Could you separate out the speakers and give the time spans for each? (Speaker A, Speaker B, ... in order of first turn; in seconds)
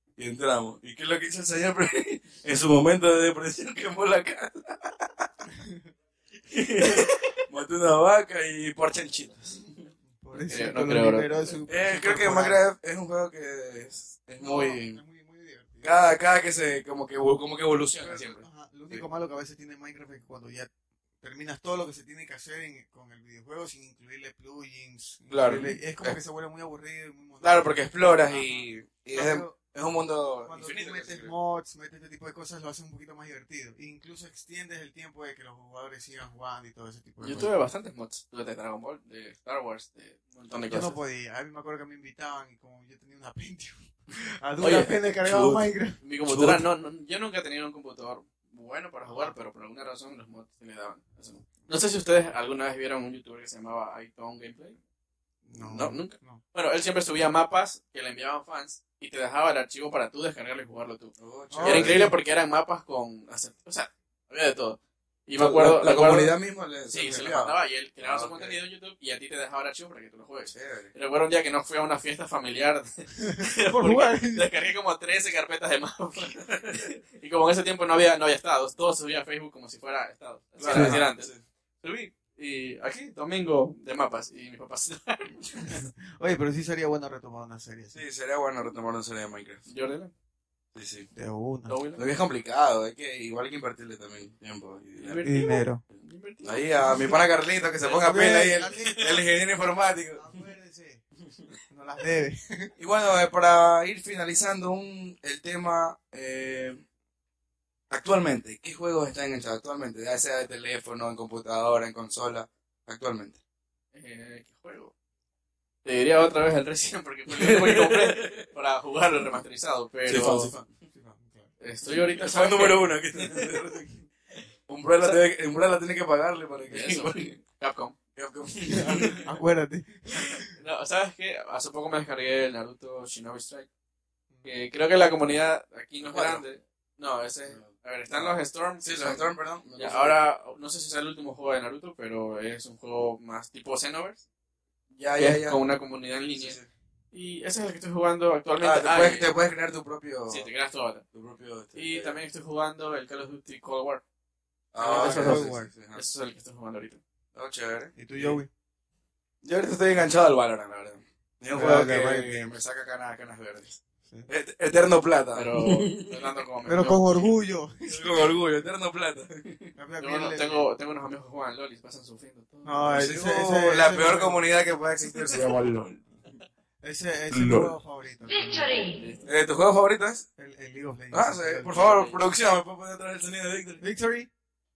Speaker A: 0.2-5.3, 6.5-9.6, 11.7-15.0, 15.8-19.0, 25.3-26.2, 27.4-31.3, 45.2-45.7, 46.2-46.6, 61.2-62.1, 65.3-68.6, 70.5-70.9, 76.5-76.8, 80.6-81.4, 87.9-89.6, 90.7-91.1, 92.0-95.2, 96.4-100.2, 102.8-106.8, 107.9-113.4, 117.3-118.5, 120.0-120.6, 122.0-124.0, 124.7-127.3, 128.2-129.2, 136.0-136.4, 137.5-140.2, 144.9-145.6, 146.3-146.7, 148.6-150.5, 151.1-152.2, 154.7-156.0, 157.3-158.4, 159.4-166.1, 167.8-169.7, 172.9-176.0, 177.3-177.7, 179.2-180.2, 181.1-183.8
Speaker B: 5.5-5.9, 10.2-12.6, 14.4-16.0, 18.0-20.7, 21.2-29.6, 30.4-37.5, 40.7-46.0, 49.0-49.3, 55.4-56.4, 61.5-62.2, 73.2-74.5, 80.6-81.0, 85.6-88.0, 91.1-91.8, 95.2-95.8, 98.0-99.4, 100.1-101.0, 101.7-102.7, 120.9-121.5, 128.6-130.5, 154.8-155.7, 157.9-158.5, 161.5-162.6, 166.7-168.4, 169.8-170.7, 172.6-174.4, 176.8-178.8, 180.4-182.0, 183.8-184.3
Speaker C: 6.8-7.1, 10.5-11.5, 37.2-41.0, 44.6-45.0, 46.0-54.8, 55.6-85.9, 89.7-90.1, 91.7-92.0, 95.0-97.2, 97.8-98.1, 98.7-99.2, 113.9-114.9, 115.8-120.6, 121.6-123.5, 126.7-128.0, 128.9-129.2, 130.1-133.7, 134.4-144.2, 145.2-146.6, 147.1-149.3, 150.3-151.0, 151.7-154.0, 154.8-157.0, 165.3-167.0, 170.0-173.1, 178.7-179.2, 181.7-182.2